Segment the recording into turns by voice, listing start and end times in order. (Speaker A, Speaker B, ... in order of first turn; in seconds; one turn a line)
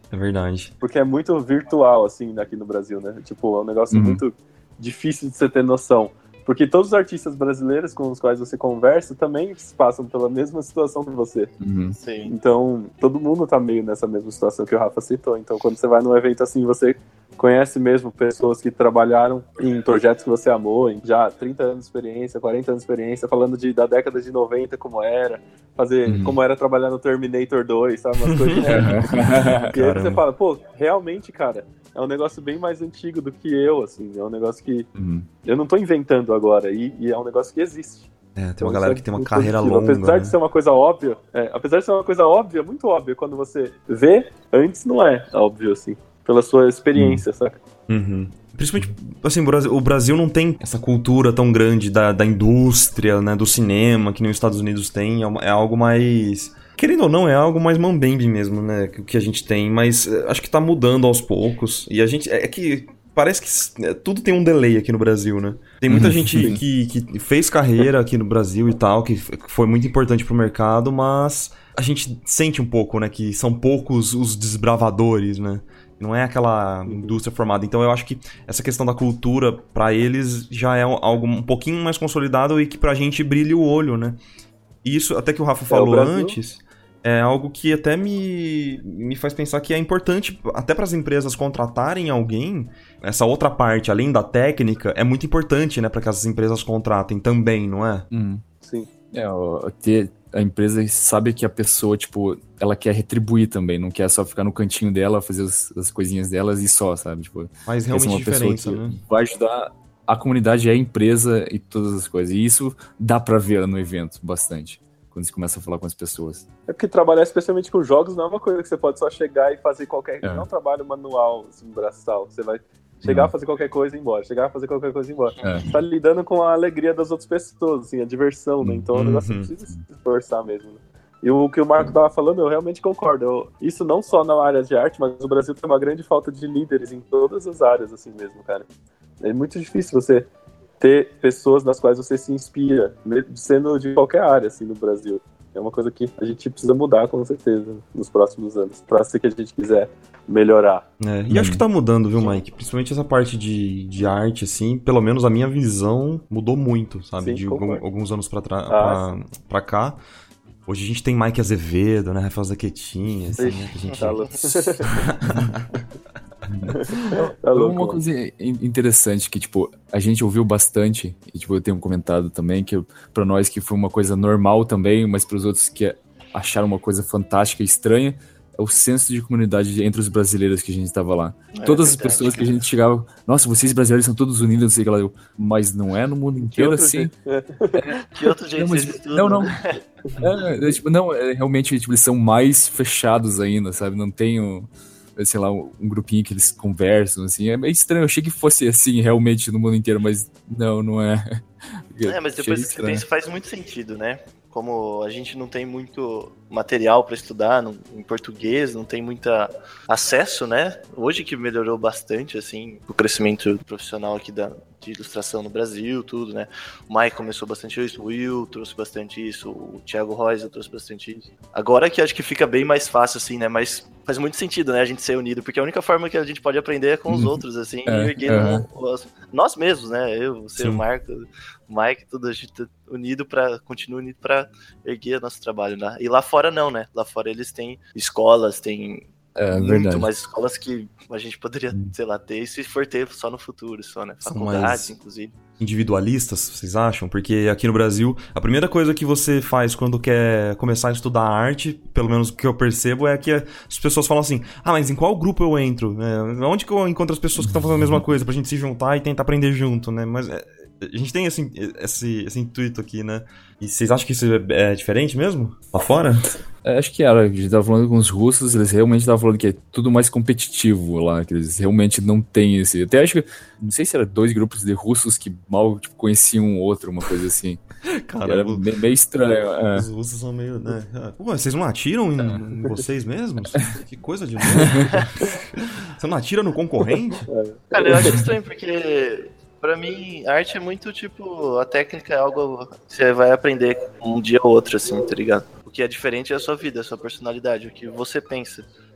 Speaker A: 0.1-0.7
Speaker B: 0.8-11.5
Speaker C: 3.9-4.2
Speaker C: 11.6-12.0
Speaker D: 12.0-12.3
Speaker B: 12.2-29.0
Speaker C: 26.1-26.4
Speaker A: 28.2-28.8
Speaker C: 28.7-29.7
Speaker B: 29.7-34.9
Speaker A: 29.7-30.2
Speaker C: 35.0-35.3
Speaker B: 35.4-38.1
Speaker A: 38.4-40.3
Speaker B: 38.6-47.6
Speaker A: 47.0-47.2
Speaker A: 47.9-84.2
Speaker C: 65.9-66.6
Speaker B: 76.9-77.2
Speaker A: 84.8-98.1
Speaker B: 85.7-86.4
Speaker C: 98.1-98.4
Speaker B: 98.6-98.9
Speaker C: 99.1-116.5
Speaker A: 107.7-109.0
Speaker B: 116.7-138.7
Speaker C: 120.2-120.5
Speaker C: 123.0-123.3
Speaker D: 125.4-125.6
Speaker C: 125.4-125.7
Speaker C: 128.6-128.9
Speaker A: 128.9-129.5
Speaker B: 139.2-140.3
Speaker B: 140.8-150.8
Speaker A: 151.0-160.0
Speaker C: 151.3-151.6
Speaker B: 157.2-157.8
Speaker B: 158.7-159.0
Speaker A: 160.7-165.7
Speaker B: 163.3-165.0
Speaker C: 166.5-187.1
Speaker B: 166.7-168.0
Speaker D: 181.6-182.5
Speaker B: 186.5-188.0
Speaker D: 188.0-189.8
Speaker C: 188.6-189.5
Speaker C: 190.2-201.3
Speaker C: 201.9-203.0
Speaker D: 202.0-245.3
Speaker C: 227.9-228.6
Speaker A: 230.6-230.8
Speaker C: 239.3-240.1
Speaker A: 244.2-244.9
Speaker A: 245.6-266.3
Speaker C: 257.4-257.9
Speaker C: 266.6-277.6
Speaker A: 278.1-278.6
Speaker C: 278.2-279.9
Speaker A: 279.7-287.3
Speaker C: 284.6-284.9
Speaker B: 287.3-288.2
Speaker D: 287.7-298.7